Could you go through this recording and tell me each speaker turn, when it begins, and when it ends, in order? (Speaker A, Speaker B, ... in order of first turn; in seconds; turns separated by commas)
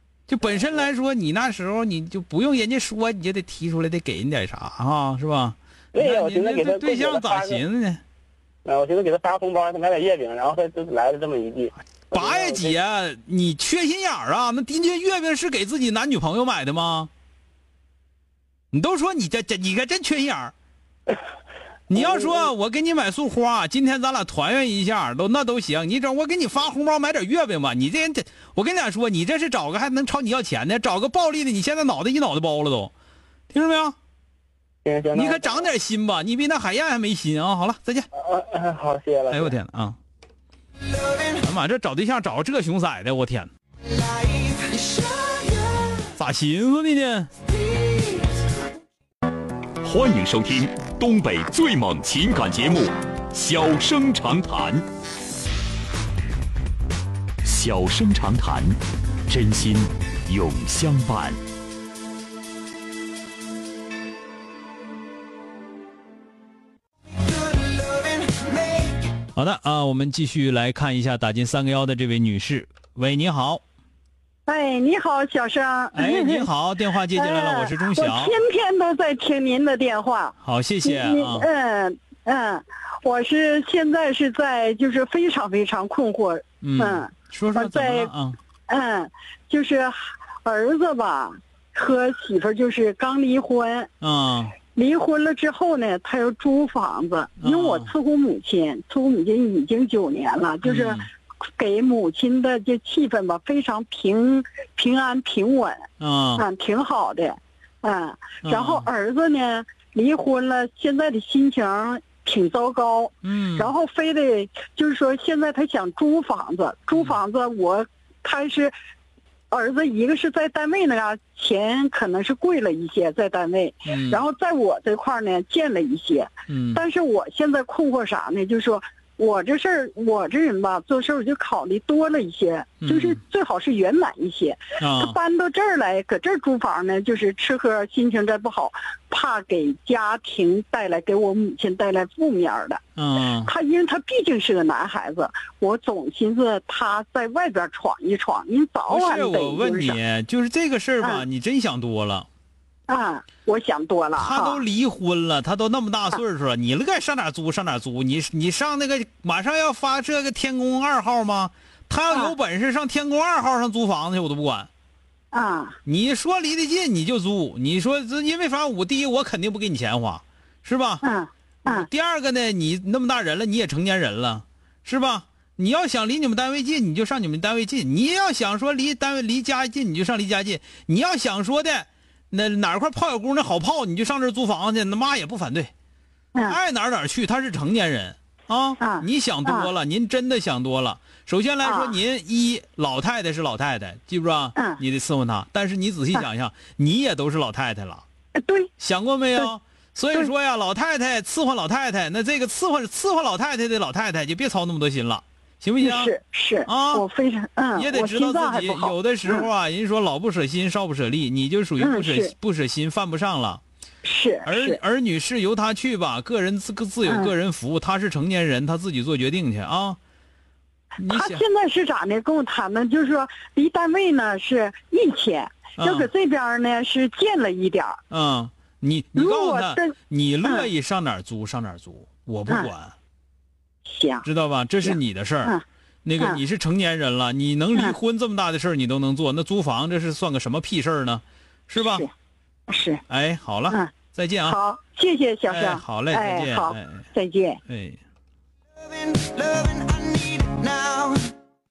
Speaker A: 0.3-8.0, Speaker B: 0.5-0.9, Speaker B: 5.9-7.6, Speaker B: 8.7-12.8, Speaker A: 12.1-17.1, Speaker A: 18.7-20.5, Speaker A: 21.9-32.9, Speaker B: 21.9-22.5, Speaker A: 33.5-34.0, Speaker B: 34.8-35.7, Speaker A: 35.1-38.1, Speaker B: 38.1-39.5, Speaker A: 39.3-40.0, Speaker A: 41.4-43.5, Speaker A: 46.2-47.3, Speaker C: 49.8-54.9, Speaker C: 57.4-61.4, Speaker A: 69.3-73.6, Speaker D: 74.5-76.5, Speaker A: 75.9-78.4, Speaker D: 77.1-88.1, Speaker A: 80.4-81.5, Speaker A: 86.6-88.4, Speaker D: 88.7-93.9, Speaker A: 94.0-94.5, Speaker D: 94.8-101.0, Speaker A: 97.4-97.9, Speaker A: 100.6-101.1, Speaker D: 101.6-118.7, Speaker A: 106.0-106.4, Speaker A: 108.4-108.9, Speaker A: 113.2-113.7, Speaker D: 119.5-142.8, Speaker A: 123.9-124.2, Speaker A: 126.5-126.8, Speaker A: 132.8-133.2, Speaker A: 134.8-135.2, Speaker A: 142.9-143.5, Speaker D: 143.4-150.0, Speaker A: 148.9-152.3, Speaker D: 151.0-151.2, Speaker D: 152.9-154.6, Speaker A: 154.2-164.7, Speaker D: 165.3-165.8, Speaker A: 165.9-171.0, Speaker D: 171.0-171.9, Speaker A: 171.6-185.7, Speaker A: 186.4-198.0, Speaker D: 188.8-189.7, Speaker D: 191.6-191.9, Speaker D: 198.4-198.7, Speaker A: 198.8-206.1, Speaker D: 205.8-209.5, Speaker A: 206.7-207.1, Speaker A: 207.8-213.6, Speaker D: 211.8-212.3, Speaker D: 214.0-214.8, Speaker A: 214.4-220.0, Speaker D: 217.1-217.3, Speaker A: 221.0-221.4, Speaker D: 221.0-228.0, Speaker A: 225.8-226.1, Speaker A: 228.1-232.9, Speaker D: 229.1-230.7, Speaker D: 233.8-234.2, Speaker A: 234.2-242.1, Speaker D: 234.8-235.6, Speaker D: 241.8-242.1, Speaker D: 242.7-243.0, Speaker A: 243.1-244.6, Speaker D: 244.4-247.6, Speaker A: 245.5-247.1, Speaker A: 247.7-248.0, Speaker E: 249.0-251.1